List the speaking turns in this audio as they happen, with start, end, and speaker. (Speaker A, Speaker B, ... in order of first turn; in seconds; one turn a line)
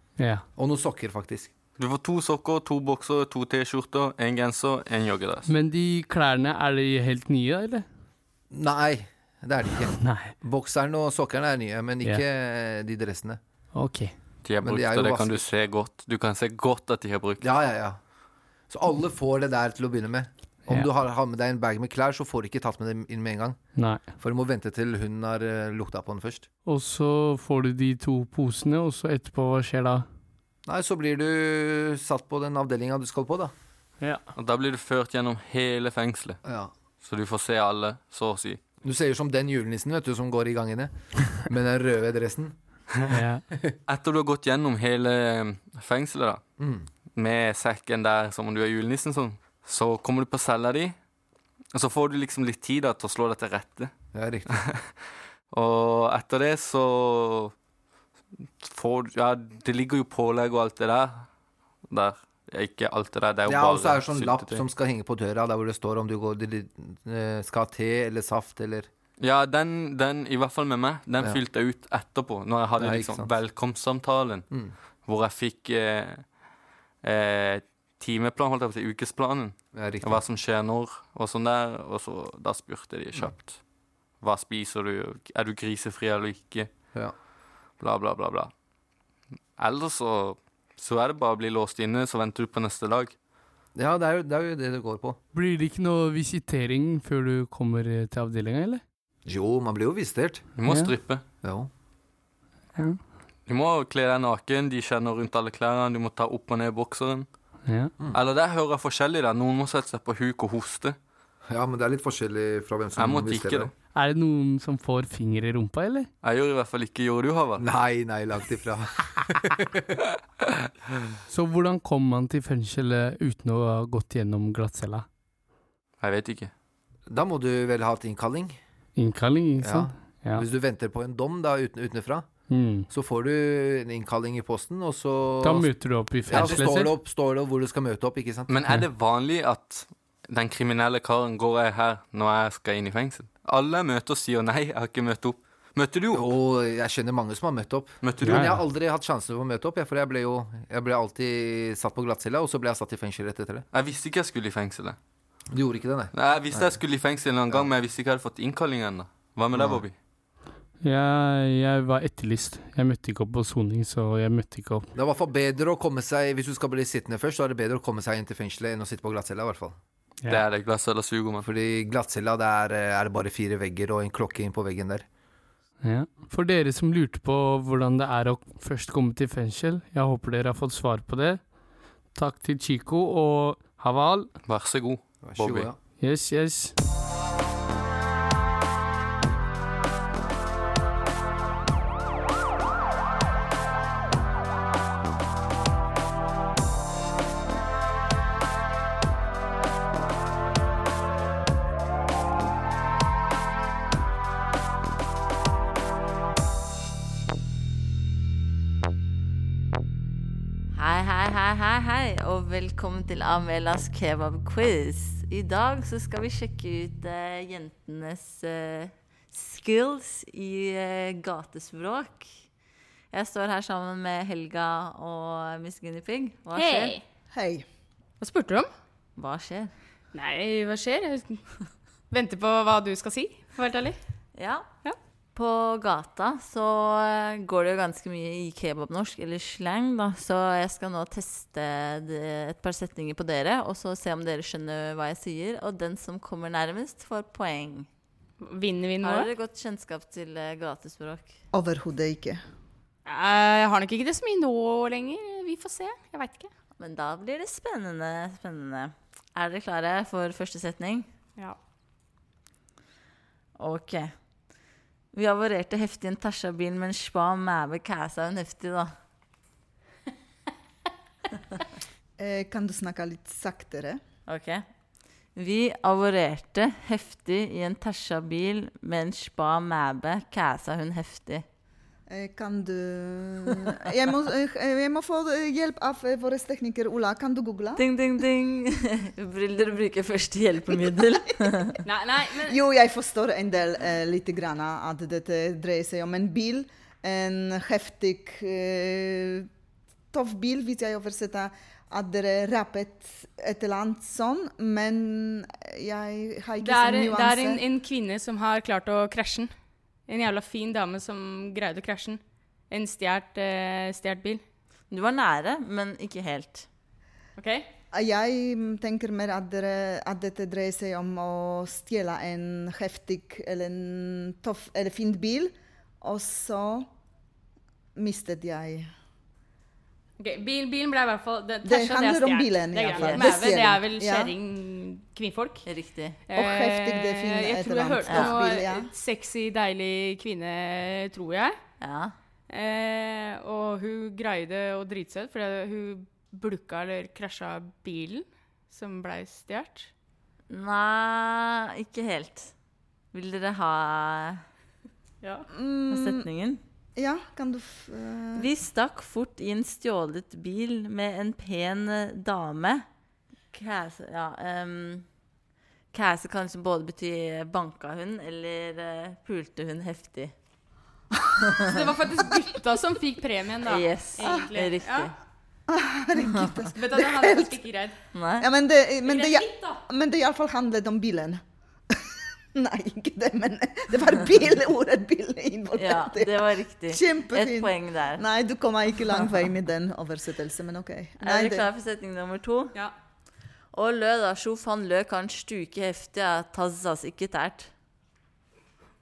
Speaker A: 0.2-0.4
Speaker B: 0.6-1.5
Speaker C: 1.8-5.5
Speaker A: 5.5-7.8
Speaker B: 8.5-13.4
Speaker A: 10.0-10.3
Speaker A: 13.7-14.1
Speaker C: 14.4-17.4
Speaker B: 14.6-15.4
Speaker B: 17.4-18.0
Speaker B: 18.7-23.6
Speaker A: 23.8-24.0
Speaker B: 24.2-26.5
Speaker A: 26.6-30.1
Speaker B: 30.7-33.5
Speaker C: 34.4-36.4
Speaker B: 36.5-36.7
Speaker C: 37.0-38.6
Speaker B: 38.8-42.5
Speaker A: 43.1-43.4
Speaker C: 43.9-46.4
Speaker B: 46.6-46.9
Speaker C: 47.1-51.0
Speaker C: 51.7-53.9
Speaker B: 54.1-54.5
Speaker C: 54.5-55.0
Speaker C: 55.5-57.5
Speaker C: 58.6-61.3
Speaker C: 61.9-64.7
Speaker B: 63.5-68.9
Speaker C: 69.2-74.5
Speaker B: 72.8-73.3
Speaker C: 75.1-76.3
Speaker C: 77.0-83.6
Speaker B: 79.7-80.2
Speaker C: 84.2-86.7
Speaker C: 87.8-88.5
Speaker C: 89.6-93.1
Speaker B: 93.8-95.2
Speaker A: 95.3-98.8
Speaker B: 99.3-100.5
Speaker C: 100.6-101.2
Speaker A: 100.7-100.9
Speaker B: 101.4-101.7
Speaker C: 103.5-107.3
Speaker A: 107.7-107.9
Speaker C: 108.1-111.0
Speaker B: 111.5-113.7
Speaker C: 113.0-113.7
Speaker A: 113.9-116.1
Speaker C: 116.2-117.7
Speaker B: 117.6-119.7
Speaker A: 121.3-125.1
Speaker C: 126.0-126.5
Speaker B: 127.1-128.6
Speaker A: 129.0-130.4
Speaker B: 129.6-132.3
Speaker A: 132.5-132.9
Speaker B: 132.9-135.7
Speaker A: 135.4-136.9
Speaker B: 136.3-138.5
Speaker C: 136.3-136.6
Speaker C: 138.5-146.3
Speaker B: 146.1-153.7
Speaker C: 148.0-148.6
Speaker A: 148.2-148.6
Speaker C: 153.7-155.0
Speaker B: 155.5-156.8
Speaker C: 156.2-159.9
Speaker B: 159.5-159.8
Speaker A: 160.8-164.9
Speaker B: 164.9-169.8
Speaker C: 170.3-171.5
Speaker B: 171.4-175.1
Speaker A: 175.8-181.4
Speaker A: 182.1-184.3
Speaker C: 184.5-185.7
Speaker B: 185.2-185.8
Speaker A: 186.0-186.7
Speaker D: 210.7-222.3
Speaker D: 223.1-227.0
Speaker E: 226.6-227.0
Speaker F: 227.3-227.7
Speaker E: 228.2-228.7
Speaker D: 229.2-229.7
Speaker E: 230.1-231.4
Speaker E: 232.1-234.0
Speaker D: 234.4-234.6
Speaker D: 235.4-247.9
Speaker E: 248.4-249.3
Speaker D: 249.0-251.3
Speaker F: 251.5-252.4
Speaker E: 253.1-256.5
Speaker D: 256.8-261.1
Speaker D: 263.6-264.1
Speaker D: 265.1-268.9
Speaker F: 272.2-274.0
Speaker D: 274.3-274.6
Speaker D: 275.4-281.4
Speaker F: 282.1-287.8
Speaker D: 287.8-291.7
Speaker E: 291.8-292.6
Speaker F: 292.5-299.5
Speaker F: 300.1-307.6
Speaker E: 306.6-309.5
Speaker E: 310.1-314.4
Speaker D: 314.9-316.7
Speaker E: 317.4-317.7
Speaker F: 317.9-326.9
Speaker F: 328.0-328.9
Speaker E: 330.2-335.7
Speaker F: 331.6-334.3
Speaker D: 332.9-333.3
Speaker D: 335.7-336.2
Speaker E: 336.3-341.6
Speaker F: 336.4-338.9
Speaker D: 338.1-338.4
Speaker D: 341.8-342.1
Speaker E: 342.5-349.9
Speaker D: 350.5-352.5
Speaker D: 353.1-354.4
Speaker F: 355.5-356.2
Speaker D: 355.9-356.6
Speaker F: 357.0-358.5
Speaker D: 358.4-362.8
Speaker D: 363.5-365.1
Speaker D: 365.9-370.3
Speaker E: 371.6-375.1
Speaker D: 373.6-375.1
Speaker F: 375.7-377.6
Speaker E: 376.8-377.9
Speaker D: 378.1-378.5
Speaker F: 378.4-382.0
Speaker E: 379.1-379.8
Speaker F: 382.6-391.7
Speaker D: 385.8-388.2
Speaker D: 391.2-392.7
Speaker D: 393.7-397.7